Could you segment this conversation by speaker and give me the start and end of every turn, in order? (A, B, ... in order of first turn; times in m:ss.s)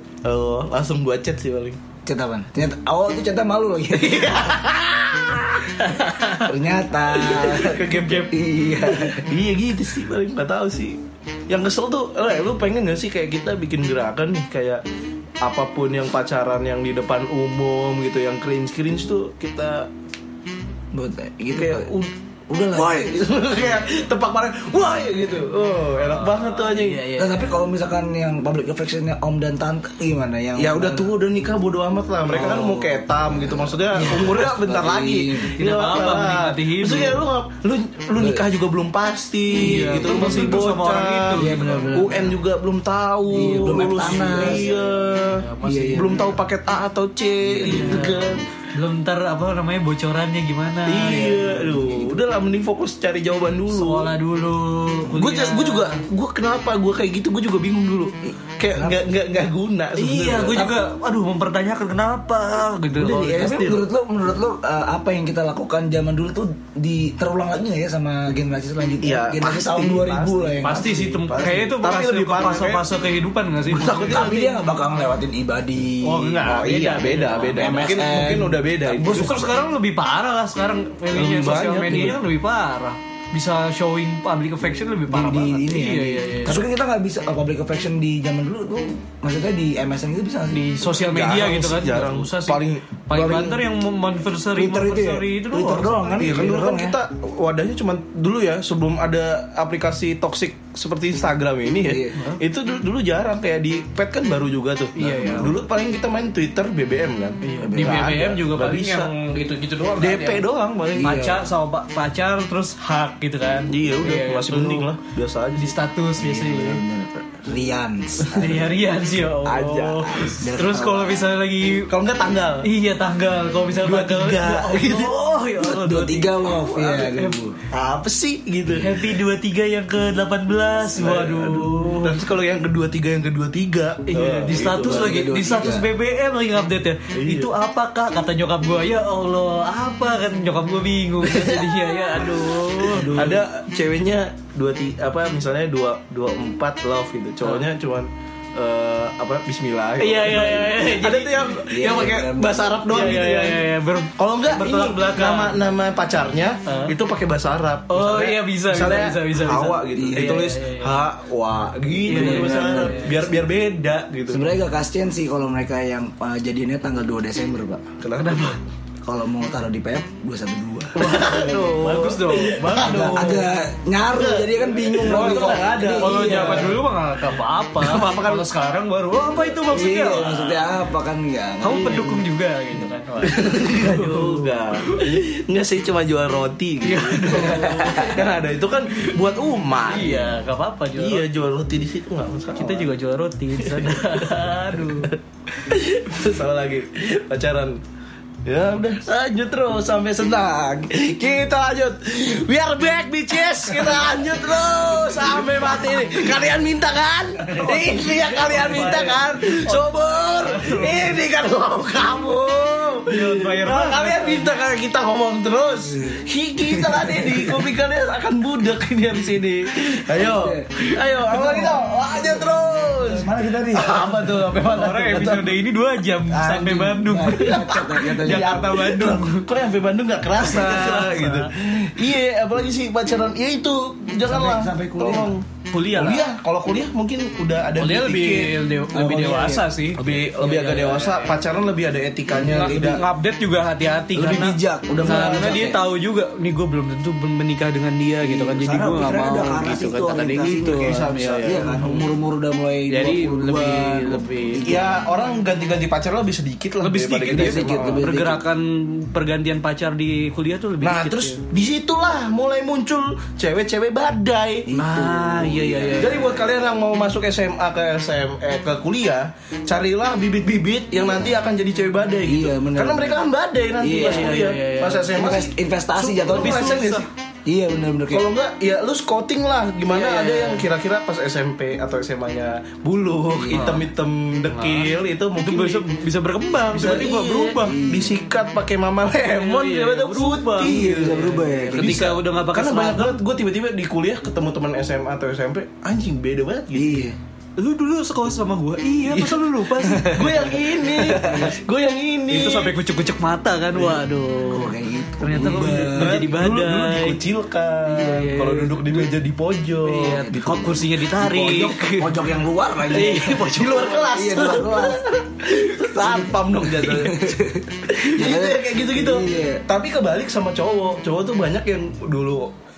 0:00.2-0:01.8 A
0:02.0-0:04.6 B
0:03.9-0:06.3 A
0:05.8-0:06.4 C
0:06.4-0:09.3 B
0:07.1-0:08.4 A
0:07.9-0:08.2 C
0:08.9-0:11.0 A
0:11.5-0:14.8 A
0:15.4-0:19.9 A
0:20.9-0:21.9 B
0:21.5-0:22.1 A
0:22.5-0:23.2 B
0:22.7-0:27.0 A
0:26.0-0:27.5 C
0:27.1-0:31.1 B
0:30.6-0:48.4 A
0:32.2-0:35.5 B
0:35.6-0:37.2 C
0:38.2-0:38.4 B
0:39.5-0:42.2 C
0:40.2-0:40.5 B
0:41.3-0:42.4 B
0:43.3-0:44.7 B
0:43.3-0:46.3 C
0:45.6-0:46.3 B
0:47.5-0:48.0 B
0:47.6-0:51.7 C
0:50.9-0:54.1 A
0:51.8-0:52.2 B
0:53.7-0:56.0 C
0:55.1-1:00.7 A
0:58.2-0:59.0 B
1:00.0-1:03.6 C
1:03.0-1:03.9 A
1:03.1-1:11.3 B
1:09.0-1:10.8 A
1:10.6-1:14.3 C
1:11.3-1:12.8 A
1:13.7-1:14.6 A
1:13.8-1:16.6 B
1:16.0-1:17.9 C
1:16.4-1:19.5 A
1:17.5-1:19.5 B
1:19.0-1:26.6 C
1:21.1-1:22.2 A
1:25.1-1:30.7 B
1:30.5-1:36.3 C
1:30.9-1:32.9 A
1:33.1-1:33.6 B
1:34.6-1:37.0 B
1:36.2-1:49.1 A
1:41.8-1:42.2 B
1:45.0-1:45.5 C
1:45.0-1:45.5 B
1:47.4-1:50.4 C
1:47.6-1:48.1 B
1:50.0-1:51.3 A
1:50.9-1:51.4 B
1:51.0-1:54.9 C
1:53.7-1:55.7 A
1:55.6-1:56.8 C
1:56.2-1:58.6 B
1:58.2-1:58.5 A
1:58.3-2:01.9 C
1:59.4-2:00.4 A
2:00.3-2:01.3 B
2:01.8-2:02.7 A
2:02.6-2:07.4 C
2:03.8-2:05.2 A
2:05.6-2:07.6 B
2:07.7-2:09.0 A
2:08.7-2:12.2 C
2:11.0-2:15.1 A
2:14.1-2:23.3 C
2:14.7-2:15.9 B
2:17.1-2:17.5 A
2:21.3-2:21.8 A
2:22.9-2:23.4 B
2:22.9-2:44.5 A
2:30.0-2:31.6 C
2:31.7-2:32.7 B
2:32.9-2:35.6 C
2:36.6-2:36.9 C
2:37.9-2:41.0 C
2:39.9-2:40.5 B
2:42.0-2:43.3 B
2:42.0-2:43.2 C
2:44.3-2:47.8 B
2:48.0-2:48.6 A
2:49.0-2:51.4 B
2:50.9-2:53.5 A
2:51.0-2:53.4 C
2:52.7-2:56.8 B
2:54.1-2:56.8 A
2:55.1-3:00.7 C
2:57.8-2:58.4 A
2:59.6-3:02.2 B
3:01.6-3:05.1 C
3:03.2-3:10.4 A
3:06.8-3:08.3 C
3:07.4-3:08.0 B
3:09.9-3:11.2 C
3:11.0-3:12.9 A
3:12.5-3:15.1 C
3:13.6-3:17.8 A
3:18.4-3:45.6 A
3:27.5-3:29.1 B
3:27.7-3:31.1 C
3:33.1-3:34.5 C
3:36.7-3:37.5 B
3:40.1-3:44.4 B
3:44.6-3:49.5 C
3:46.3-3:48.6 B
3:47.3-3:58.6 A
3:50.3-3:51.5 C
3:54.2-3:55.3 B
3:55.7-3:56.3 C
3:57.8-4:01.3 C
3:58.9-3:59.7 B
3:59.9-4:03.0 A
4:02.3-4:03.0 B
4:02.4-4:12.0 C
4:04.1-4:05.8 B
4:05.0-4:05.6 A
4:08.2-4:15.0 B
4:10.6-4:11.9 A
4:12.9-4:14.7 C
4:14.6-4:18.1 A
4:16.8-4:21.4 C
4:17.3-4:18.4 B
4:20.8-4:24.7 A
4:24.7-4:26.3 B
4:24.7-4:26.4 C
4:26.0-4:37.1 A
4:31.0-4:31.4 B
4:32.2-4:33.2 B
4:33.8-4:34.4 B
4:33.9-4:35.2 C
4:35.1-4:36.8 B
4:36.0-4:37.0 C
4:37.4-4:38.3 B
4:38.1-4:45.8 A
4:39.9-4:40.6 C
4:43.3-4:43.8 B
4:43.5-4:43.8 C
4:44.5-4:47.8 C
4:46.7-4:57.1 A
4:47.6-4:48.2 B
4:49.3-4:53.2 C
4:50.6-4:52.0 B
4:56.7-4:57.2 B
4:57.6-5:00.7 C
4:59.1-4:59.4 A
5:00.0-5:02.7 A
5:01.0-5:01.5 B
5:01.2-5:01.4 C
5:02.3-5:07.2 C
5:04.5-5:06.2 B
5:05.4-5:10.8 A
5:07.8-5:09.1 C
5:09.8-5:12.3 C
5:10.1-5:15.0 B
5:12.8-5:14.0 C
5:13.3-5:22.5 A
5:15.8-5:19.6 B